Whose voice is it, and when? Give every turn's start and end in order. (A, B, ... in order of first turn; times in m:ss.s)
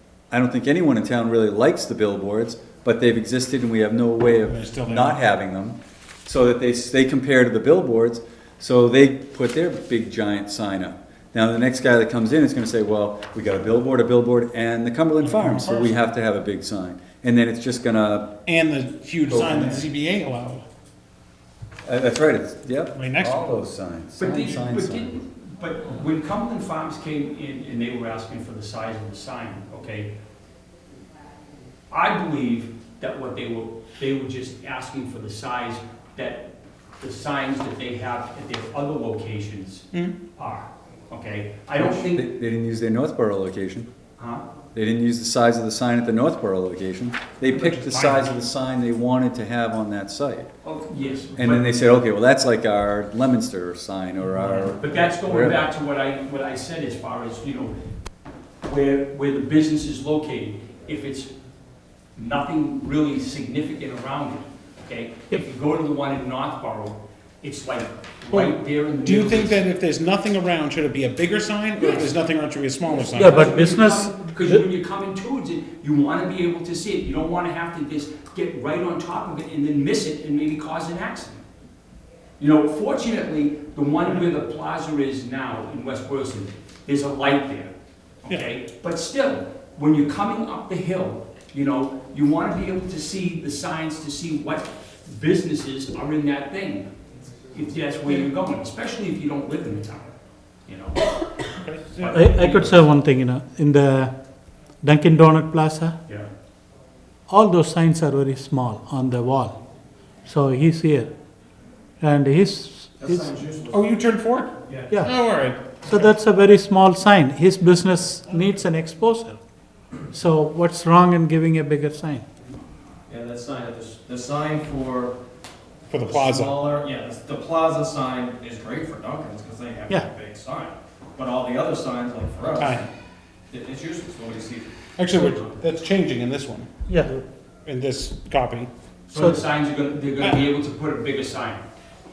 0:00.3-0:18.4 A
0:04.5-0:05.2 B
0:15.2-0:16.0 B
0:18.5-0:20.6 B
0:19.3-0:19.9 A
0:21.9-0:25.1 A
0:23.0-0:23.6 B
0:24.2-0:30.1 C
0:31.9-0:36.5 C
0:37.0-0:42.3 C
0:41.8-0:43.9 A
0:44.2-0:44.4 C
0:44.7-0:50.5 A
0:47.5-0:48.3 C
0:50.6-0:51.7 C
0:51.4-0:55.6 A
0:54.6-0:57.8 C
0:58.6-1:01.3 C
1:02.2-1:09.6 C
1:08.3-1:13.6 B
1:11.8-1:12.1 C
1:12.9-1:21.4 C
1:13.1-1:14.6 D
1:22.4-1:27.7 C
1:28.2-1:36.9 C
1:37.5-1:40.1 C
1:40.7-1:42.9 C
1:41.6-1:42.3 B
1:42.1-1:44.1 D
1:44.8-1:46.0 D
1:47.3-1:49.6 D
1:50.3-1:51.1 D
1:52.0-1:53.3 D
1:53.0-1:53.9 E
1:53.7-1:55.9 B
1:55.8-1:59.4 D
2:00.1-2:02.2 D
2:03.1-2:05.2 E
2:05.9-2:06.6 B
2:06.0-2:12.8 E
2:12.6-2:12.9 B
2:13.5-2:15.4 E
2:15.0-2:16.7 B
2:16.9-2:17.2 D
2:17.6-2:18.7 B
2:19.1-2:21.6 C